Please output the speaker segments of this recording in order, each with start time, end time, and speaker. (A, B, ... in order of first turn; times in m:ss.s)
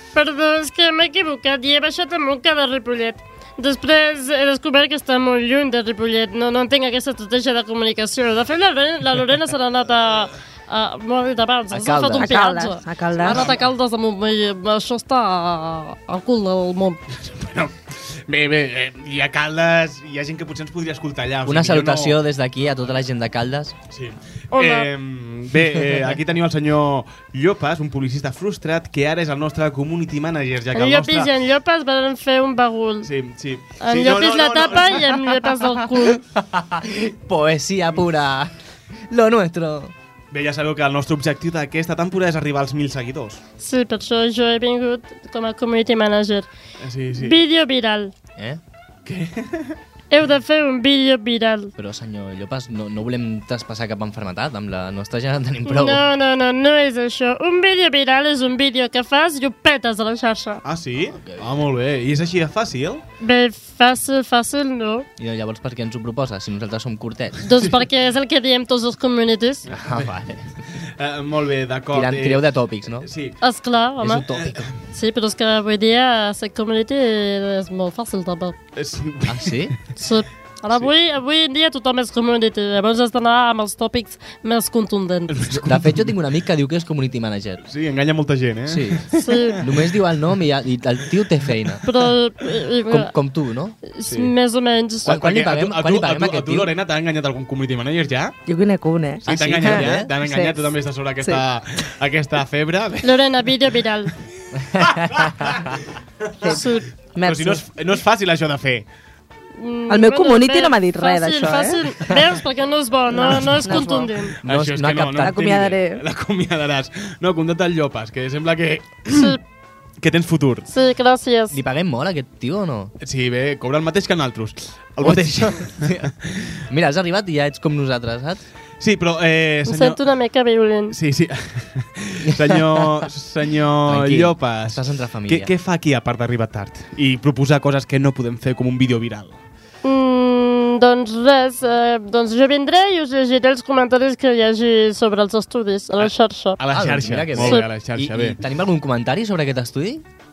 0:00.1-0:17.0 A
0:11.7-0:12.4 B
0:12.1-0:13.5 C
0:13.2-0:13.7 D
0:17.2-0:22.2 D
0:21.4-0:23.7 B
0:23.9-0:31.3 D
0:24.5-0:24.9 A
0:30.7-0:33.1 A
0:33.0-0:35.3 D
0:33.8-0:36.2 A
0:36.4-0:38.5 B
0:39.1-0:39.9 B
0:40.3-0:43.4 D
0:43.6-0:46.5 A
0:46.8-0:47.4 D
0:47.2-0:48.1 A
0:49.0-0:49.8 D
0:50.1-0:51.7 A
0:51.8-0:56.1 B
0:55.6-1:00.6 A
1:00.6-1:03.0 D
1:01.1-1:01.5 B
1:03.2-1:05.0 A
1:05.2-1:07.4 B
1:07.4-1:09.7 A
1:09.7-1:10.4 B
1:09.7-1:10.1 D
1:11.0-1:13.4 D
1:11.9-1:13.1 B
1:13.4-1:14.2 A
1:14.0-1:14.7 B
1:14.3-1:14.6 D
1:14.9-1:18.6 A
1:18.8-1:19.6 D
1:19.2-1:19.9 B
1:19.9-1:25.3 A
1:25.3-1:26.1 D
1:25.5-1:27.6 B
1:27.6-1:29.4 D
1:28.7-1:31.8 B
1:29.2-1:29.6 A
1:31.8-1:33.1 A
1:32.9-1:33.8 B
1:33.8-1:35.1 A
1:34.0-1:34.3 D
1:35.0-1:38.4 D
1:35.0-1:36.7 B
1:38.5-1:41.4 C
1:39.2-1:43.2 D
1:39.2-1:40.1 B
1:43.0-1:44.1 A
1:44.7-1:45.6 B
1:44.7-1:46.6 D
1:46.4-1:47.6 C
1:46.5-1:46.9 A
1:47.2-1:48.8 D
1:49.6-1:54.4 A
1:49.9-1:51.8 C
1:53.1-1:54.1 C
1:54.4-1:55.4 B
1:54.4-1:59.4 D
1:55.2-1:56.0 C
1:59.1-1:59.4 A
2:00.0-2:00.7 D
2:00.7-2:01.6 A
2:01.5-2:02.9 B
2:03.0-2:06.5 D
2:05.0-2:06.1 B
2:06.7-2:08.4 B
2:08.8-2:10.0 D
2:09.6-2:11.0 A
2:10.9-2:19.4 D
2:13.9-2:15.5 B
2:19.8-2:26.6 A
2:26.6-2:28.4 D
2:26.7-2:30.0 B
2:27.4-2:27.7 A